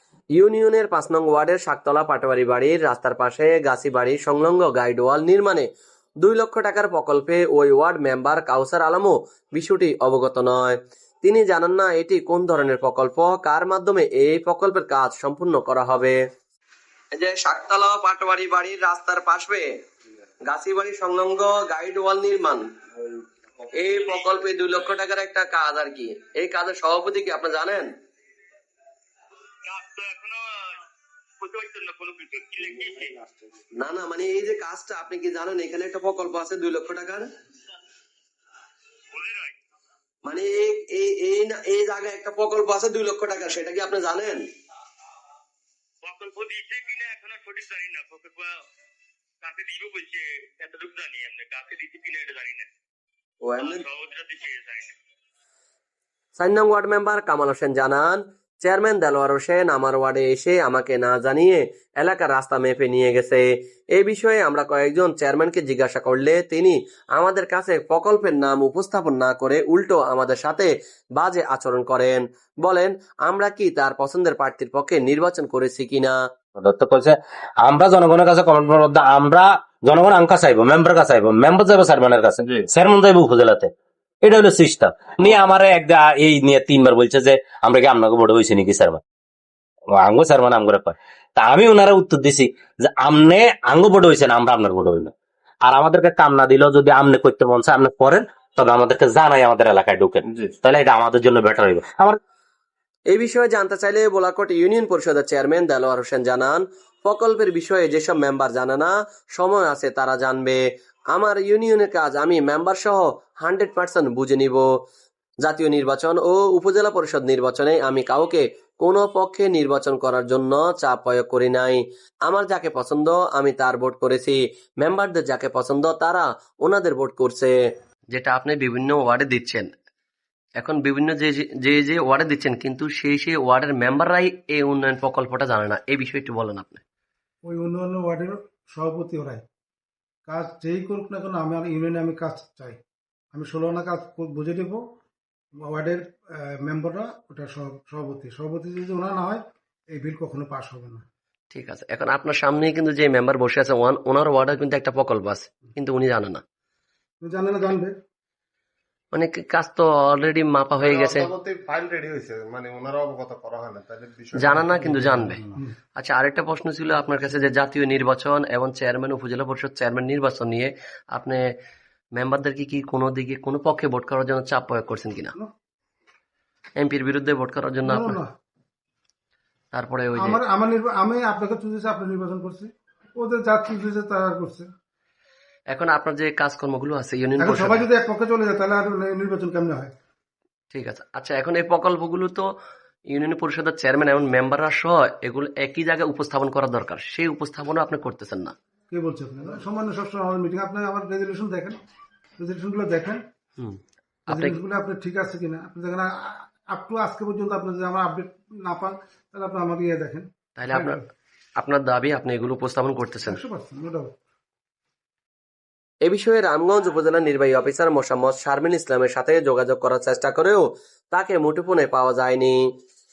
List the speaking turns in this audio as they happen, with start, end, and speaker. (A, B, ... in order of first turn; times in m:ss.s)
0:00.3-0:05.7 A
0:06.2-0:16.2 A
0:17.1-0:19.7 A
0:20.5-0:22.6 A
0:23.7-0:27.9 A
0:29.7-0:30.4 B
0:31.4-0:33.1 B
0:33.8-0:37.3 A
0:39.1-0:39.5 B
0:40.2-0:44.4 A
0:46.0-0:48.5 B
0:49.4-0:52.7 B
0:53.4-0:53.8 A
0:53.6-0:54.9 B
0:56.4-1:16.2 A
1:16.6-1:23.7 C
1:24.2-1:29.0 C
1:30.0-1:35.1 C
1:35.6-1:42.2 C
1:43.1-1:50.6 A
1:51.1-1:54.6 A
1:55.4-2:07.5 A
2:08.1-2:09.7 A
2:10.6-2:16.8 A
2:17.4-2:19.4 D
2:20.2-2:22.8 D
2:23.3-2:24.8 D
2:25.5-2:31.0 D
2:31.5-2:36.4 A
2:37.2-2:38.0 D
2:39.1-2:41.3 A
2:40.8-2:44.6 E
2:44.4-2:45.4 A
2:44.7-2:45.7 D
2:46.0-2:51.5 A
2:52.1-2:55.3 A
2:56.8-2:58.2 A
2:57.8-2:58.3 D
2:59.7-3:00.4 A
3:00.1-3:04.7 D
3:05.7-3:07.9 A
3:07.4-3:09.9 D
3:10.7-3:12.5 A
3:13.1-3:18.5 A
3:18.9-3:21.8 D
3:22.4-3:23.2 D
3:24.3-3:31.0 D
3:24.3-3:24.6 A
3:30.6-3:31.0 A
3:31.6-3:33.4 A
3:33.2-3:34.1 D
3:36.0-3:42.7 A